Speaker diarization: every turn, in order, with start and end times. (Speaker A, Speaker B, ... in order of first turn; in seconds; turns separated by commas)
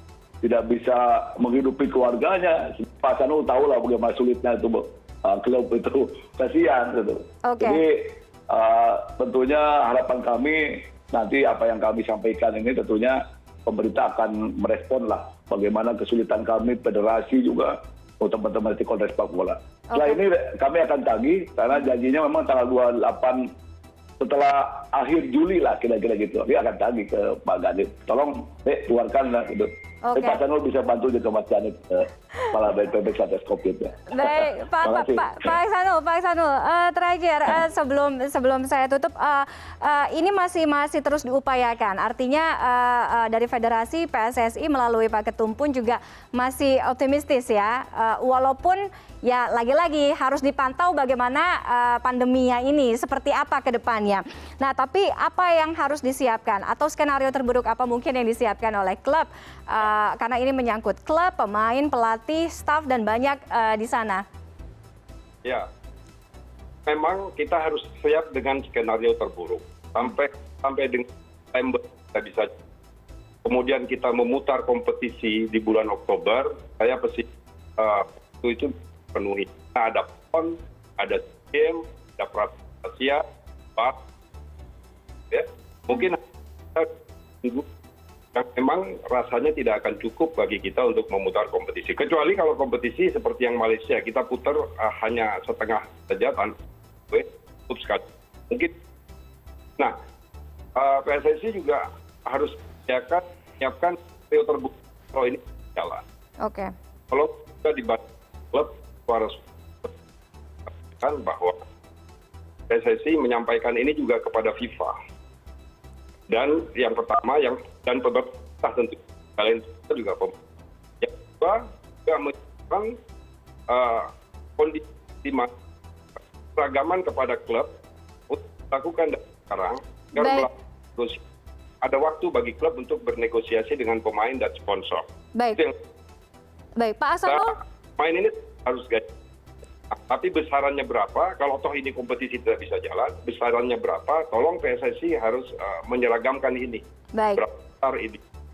Speaker A: 0.4-23.4, Speaker B: 7.5-7.8, Speaker B: 19.9-20.2, Speaker A: 24.2-35.5, Speaker B: 30.0-30.4, Speaker B: 34.1-64.2, Speaker C: 66.8-72.5, Speaker C: 73.4-83.2, Speaker C: 85.3-86.2, Speaker C: 88.3-96.5, Speaker C: 97.1-98.7, Speaker C: 100.8-106.0, Speaker B: 106.4-106.7, Speaker C: 107.1-108.0, Speaker C: 108.5-109.9, Speaker C: 110.9-111.6, Speaker C: 112.7-115.0, Speaker C: 116.3-120.3, Speaker C: 121.0-122.9, Speaker C: 123.7-125.5, Speaker C: 126.5-127.7, Speaker C: 128.3-131.2, Speaker B: 130.2-130.5, Speaker C: 131.8-135.8, Speaker B: 135.3-135.6, Speaker B: 136.8-137.5, Speaker C: 137.2-139.1, Speaker C: 139.9-146.8, Speaker B: 147.1-147.4, Speaker C: 147.3-148.2